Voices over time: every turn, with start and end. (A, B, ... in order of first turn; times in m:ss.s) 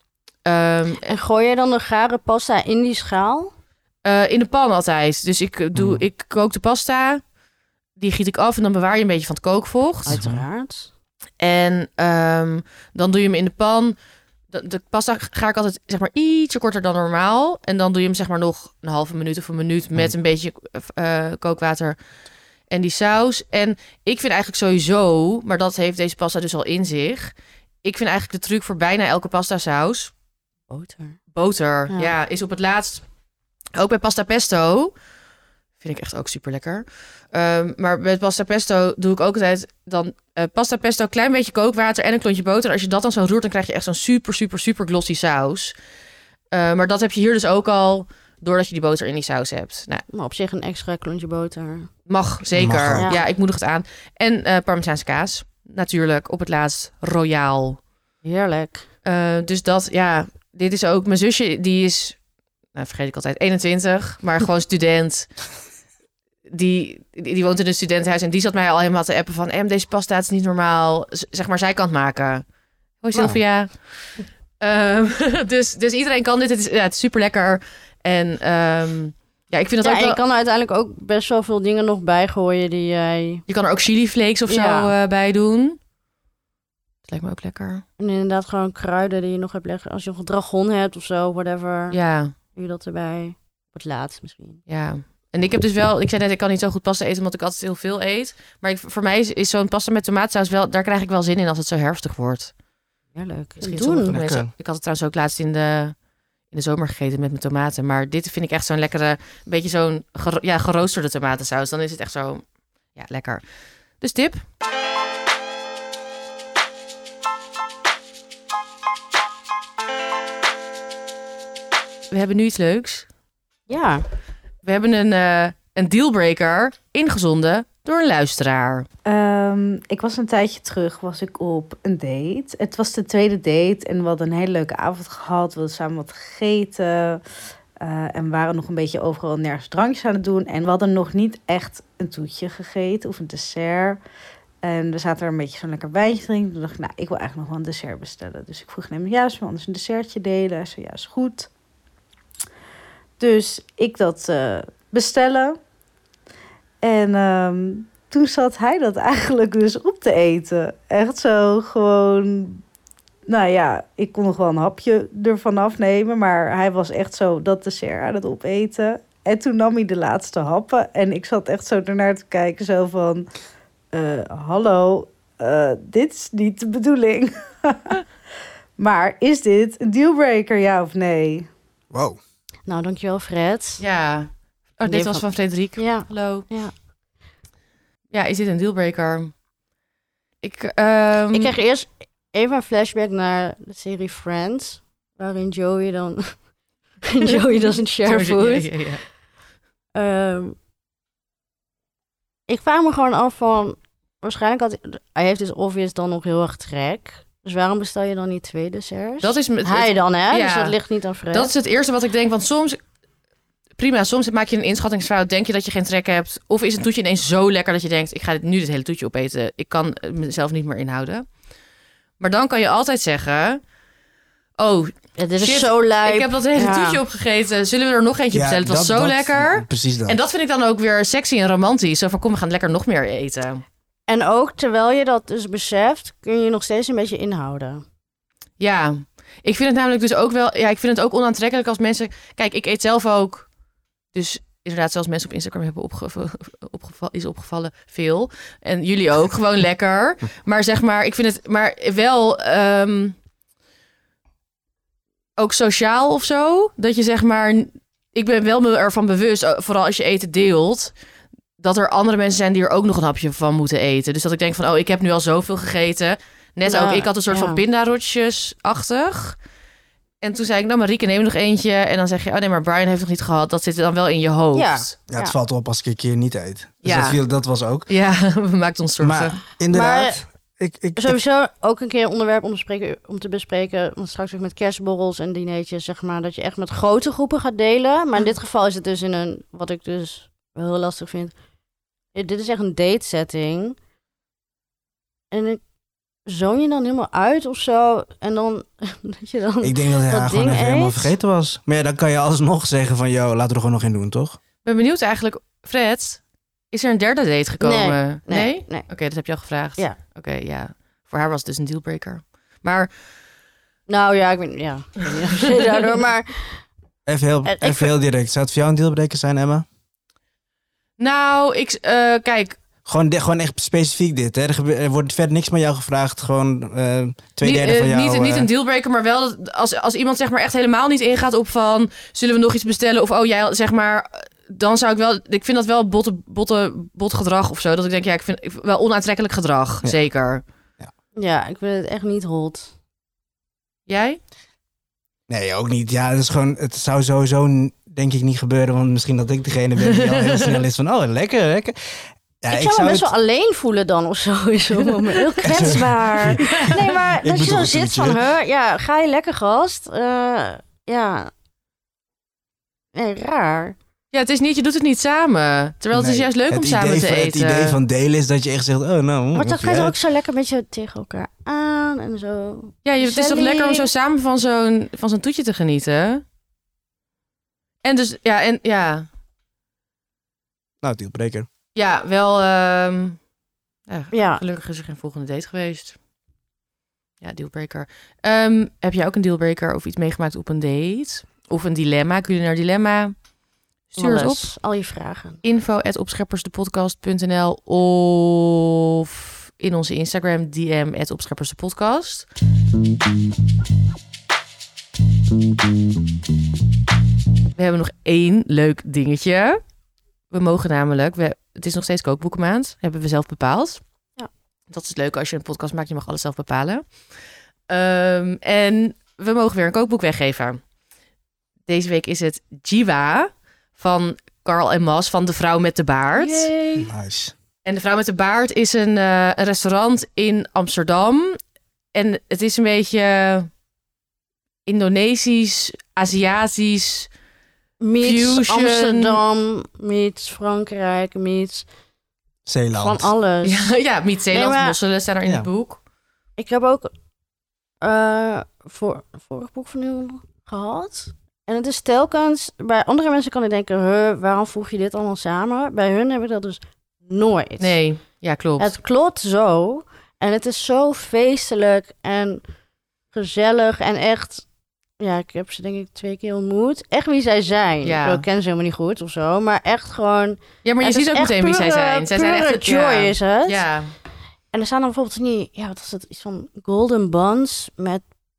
0:00.4-0:01.1 A
0:01.1-0:03.5 B
0:04.0-0:07.2 A
0:05.7-0:06.0 C
0:08.0-0:10.1 A
0:10.1-0:10.9 B
0:10.1-0:10.4 C
0:11.4-0:14.0 A
0:14.5-0:22.0 A
0:22.7-0:30.1 A
0:30.7-0:31.2 B
0:31.3-0:33.0 A
0:33.7-0:34.9 A
0:35.8-0:45.7 A
0:46.5-0:50.0 A
0:50.1-0:51.9 B
0:52.1-0:57.8 A
0:52.6-0:53.1 C
0:53.0-0:53.2 B
0:58.2-0:58.8 B
0:59.0-1:02.2 A
1:02.7-1:05.3 A
1:06.5-1:12.4 A
1:13.0-1:13.7 A
1:14.6-1:20.2 A
1:19.8-1:23.4 B
1:23.5-1:25.8 A
1:24.5-1:24.9 B
1:27.1-1:27.8 A
1:28.0-1:32.0 B
1:31.9-1:32.3 A
1:32.5-1:34.6 B
1:34.7-1:42.5 A
1:43.1-1:44.2 B
1:43.6-1:46.0 A
1:44.1-1:44.5 C
1:46.5-1:53.4 A
1:54.0-1:54.4 A
2:02.1-2:03.1 A
2:03.7-2:04.0 B
2:04.6-2:08.9 A
2:09.0-2:17.2 D
2:17.8-2:24.0 D
2:24.6-2:31.5 D
2:33.2-2:35.6 D
2:36.8-2:42.6 D
2:43.3-2:53.3 D
2:53.9-2:58.0 D
2:58.8-3:01.5 D
3:01.9-3:02.2 C
3:02.6-3:03.8 B
3:03.8-3:06.4 A
3:04.9-3:05.2 B
3:05.8-3:06.7 B
3:08.1-3:09.3 A
3:10.4-3:11.5 A
3:11.3-3:16.3 B
3:17.0-3:18.7 B
3:17.2-3:19.0 A
3:19.9-3:20.6 B
3:22.5-3:31.5 B
3:29.2-3:30.8 A
3:31.3-3:32.8 A
3:33.8-3:41.2 A
3:42.2-3:43.6 A
3:44.6-3:53.6 A
3:45.2-3:47.0 B
3:48.3-3:50.2 C
3:54.1-3:57.8 B
3:58.6-4:03.5 A
4:04.1-4:13.2 A
4:15.4-4:20.9 A
4:21.6-4:29.4 A
4:26.6-4:27.6 B
4:30.2-4:34.9 A
4:34.5-4:35.3 B
4:35.1-4:37.9 C
4:36.8-4:37.2 A
4:37.9-4:39.4 A
4:39.0-4:41.2 C
4:39.7-4:40.2 B
4:41.0-4:51.3 B
4:52.1-4:53.8 B
4:55.3-4:55.6 B
4:56.2-5:01.1 B
4:59.6-5:04.4 C
5:04.6-5:06.2 A
5:06.7-5:12.9 A
5:07.6-5:08.9 B
5:13.9-5:16.6 B
5:17.1-5:19.6 C
5:17.4-5:17.9 B
5:21.0-5:22.6 A
5:22.8-5:28.5 C
5:27.4-5:40.4 A
5:41.1-5:42.7 B
5:43.9-5:44.2 A
5:45.3-5:51.7 C
5:49.8-5:50.6 A
5:52.4-5:53.1 C
5:52.5-6:01.3 B
5:55.4-5:58.2 C
5:56.4-5:56.8 A
6:02.9-6:03.7 B
6:04.1-6:07.8 A
6:05.9-6:10.0 C
6:09.3-6:13.9 B
6:12.8-6:16.2 A
6:17.8-6:19.1 A
6:20.8-6:21.5 C
6:21.7-6:23.2 A
6:23.9-6:26.0 A
6:24.1-6:24.4 B
6:27.2-6:33.1 A
6:33.9-6:34.5 A
6:34.0-6:35.4 B
6:35.4-6:42.3 A
6:47.6-6:49.6 A
6:50.3-6:53.8 A
6:54.7-6:56.8 A
6:57.7-7:00.6 A
7:01.7-7:06.5 A
7:06.1-7:06.9 B
7:06.8-7:07.3 C
7:07.6-7:11.4 A
7:11.9-7:13.5 A
7:14.6-7:17.1 A
7:17.8-7:21.6 B
7:18.0-7:19.2 A
7:22.4-7:23.1 C
7:22.7-7:23.7 B
7:23.4-7:25.8 A
7:24.3-7:24.8 B
7:26.4-7:26.9 B
7:27.8-7:37.8 B
7:37.6-7:38.7 A
7:38.6-7:42.4 B
7:43.1-7:44.4 B
7:45.0-7:53.6 B
7:47.8-7:48.2 A
7:50.6-7:53.9 A
7:54.5-7:58.0 B